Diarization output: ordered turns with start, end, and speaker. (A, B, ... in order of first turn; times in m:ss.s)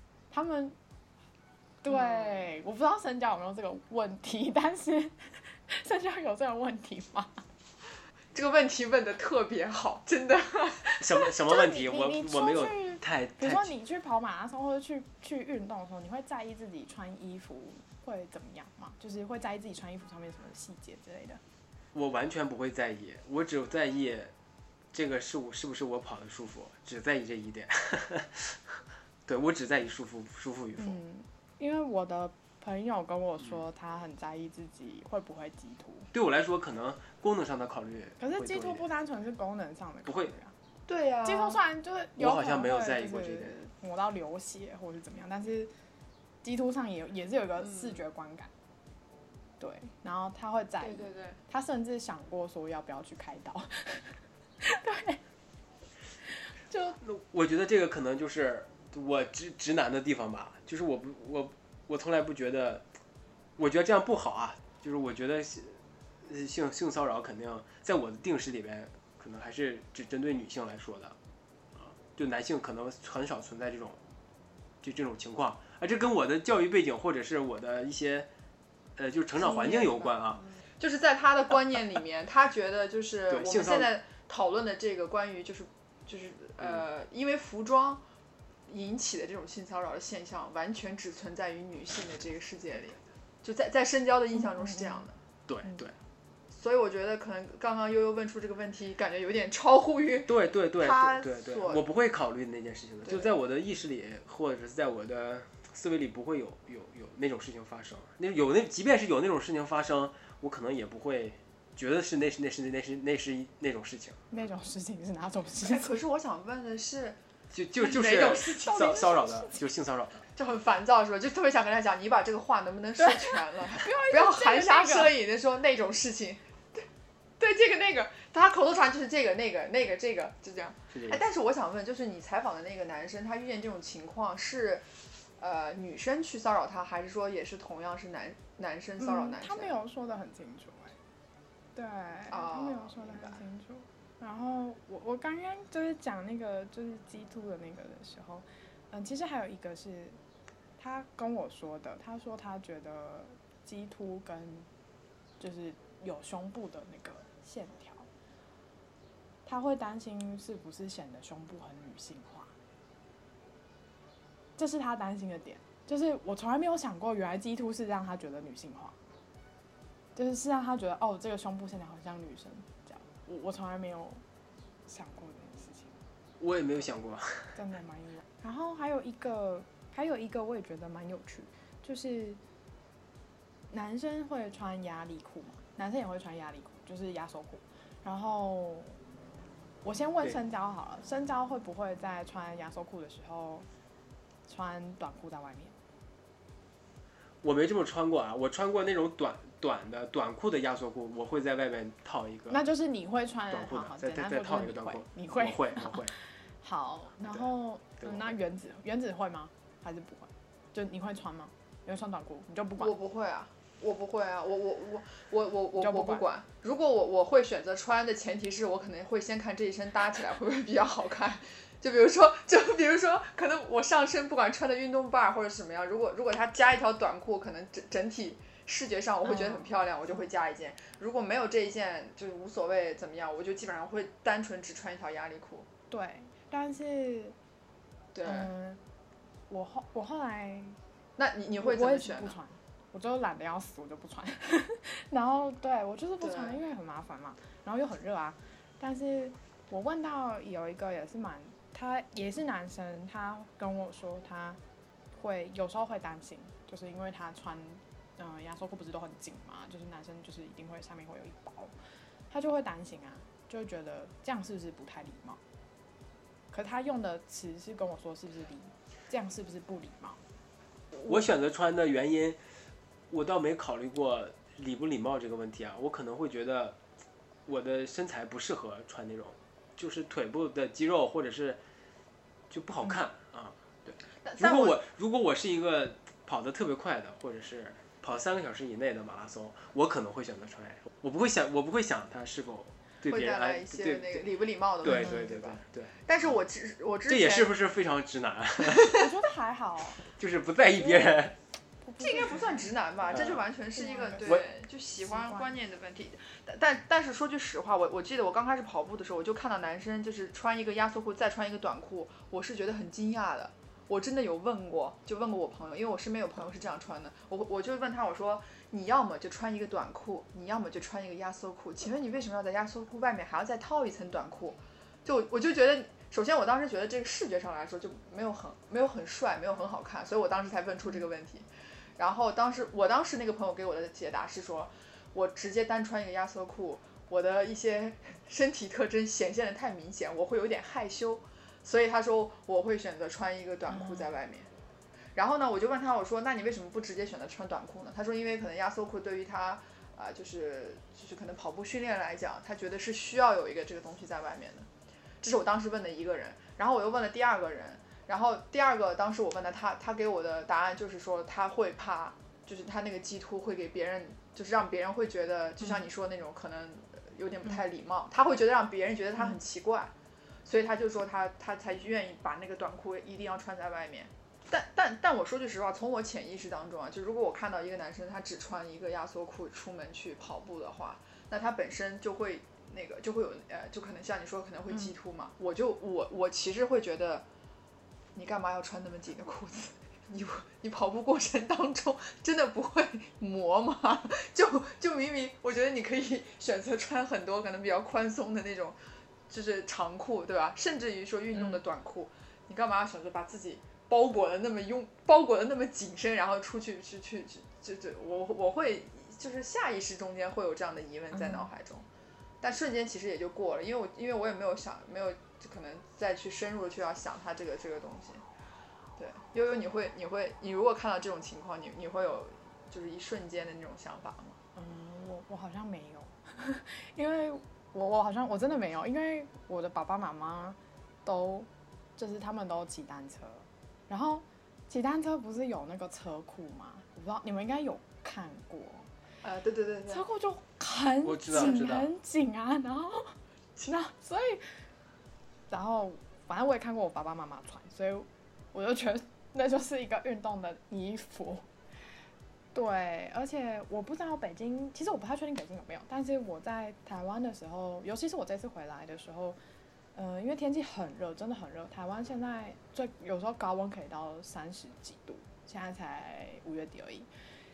0:00.3-0:00.8 A
0:01.8-0:07.4 A
0:01.9-0:02.3 B
0:08.3-0:11.0 B
0:11.0-0:13.7 C
0:11.5-0:21.4 A
0:21.9-0:24.3 C
0:24.9-0:31.0 C
0:30.8-0:36.1 A
0:36.1-0:38.8 C
0:38.2-0:40.5 A
0:40.1-0:40.3 C
0:40.9-0:41.6 B
0:41.2-0:45.7 A
0:42.2-0:43.6 C
0:46.4-0:48.5 A
0:49.6-0:55.2 A
0:50.8-0:51.4 B
0:56.7-0:57.0 A
0:57.0-1:02.8 C
1:03.6-1:11.2 C
1:11.8-1:14.0 C
1:14.8-1:18.3 C
1:19.0-1:20.5 C
1:19.4-1:28.0 B
1:23.3-1:24.0 C
1:28.7-1:35.2 B
1:34.6-1:35.0 A
1:35.5-1:36.0 C
1:36.5-1:41.8 B
1:40.3-1:54.2 C
1:43.0-1:43.3 B
1:54.3-1:55.9 A
1:55.6-1:57.2 B
1:57.5-2:00.2 C
1:57.8-1:59.1 B
1:58.6-1:59.6 A
2:00.4-2:06.9 B
2:03.0-2:05.1 A
2:07.4-2:14.9 B
2:10.9-2:11.2 C
2:15.4-2:19.8 B
2:19.0-2:21.0 A
2:21.8-2:30.2 A
2:22.3-2:23.4 B
2:30.8-2:34.7 A
2:35.4-2:38.1 A
2:39.4-2:42.5 A
2:44.6-2:49.0 A
2:50.1-2:54.2 A
2:54.9-2:56.0 A
2:56.4-2:57.6 C
2:57.5-3:02.4 A
3:03.7-3:09.0 A
3:09.8-3:13.7 A
3:14.5-3:15.8 A
3:17.4-3:22.6 C
3:22.5-3:32.9 A
3:23.5-3:26.1 C
3:28.0-3:28.3 C
3:32.8-3:55.7 B
3:35.8-3:36.2 A
3:49.3-3:49.7 A
3:55.9-3:57.4 A
3:58.1-3:58.5 B
3:58.2-3:58.8 A
3:59.5-4:00.8 A
4:01.2-4:02.4 B
4:01.6-4:14.6 A
4:06.2-4:06.6 B
4:15.1-4:21.7 A
4:22.3-4:25.4 A
4:26.5-4:30.2 A
4:31.0-4:32.4 C
4:33.1-4:36.8 C
4:37.5-4:41.6 C
4:42.5-4:54.3 C
4:44.2-4:44.8 B
4:53.1-4:57.5 B
4:54.8-4:56.0 C
4:57.1-4:59.0 C
4:58.9-5:00.0 A
5:00.0-5:01.4 C
5:01.8-5:02.7 A
5:02.0-5:44.5 B
5:03.1-5:03.4 C
5:03.8-5:04.4 A
5:05.0-5:05.5 A
5:43.8-5:44.1 A
5:45.1-5:54.7 B
5:55.2-6:09.9 B
6:10.4-6:27.2 B
6:28.1-6:38.8 B
6:39.3-6:51.9 B
6:51.1-6:51.5 A
6:52.4-6:58.2 B
6:59.0-7:04.4 B
7:04.6-7:18.9 A
7:19.2-7:20.0 B
7:19.9-7:24.6 A
7:21.0-7:21.9 C
7:25.5-7:31.5 A
7:32.5-7:39.4 A
7:40.0-7:47.1 A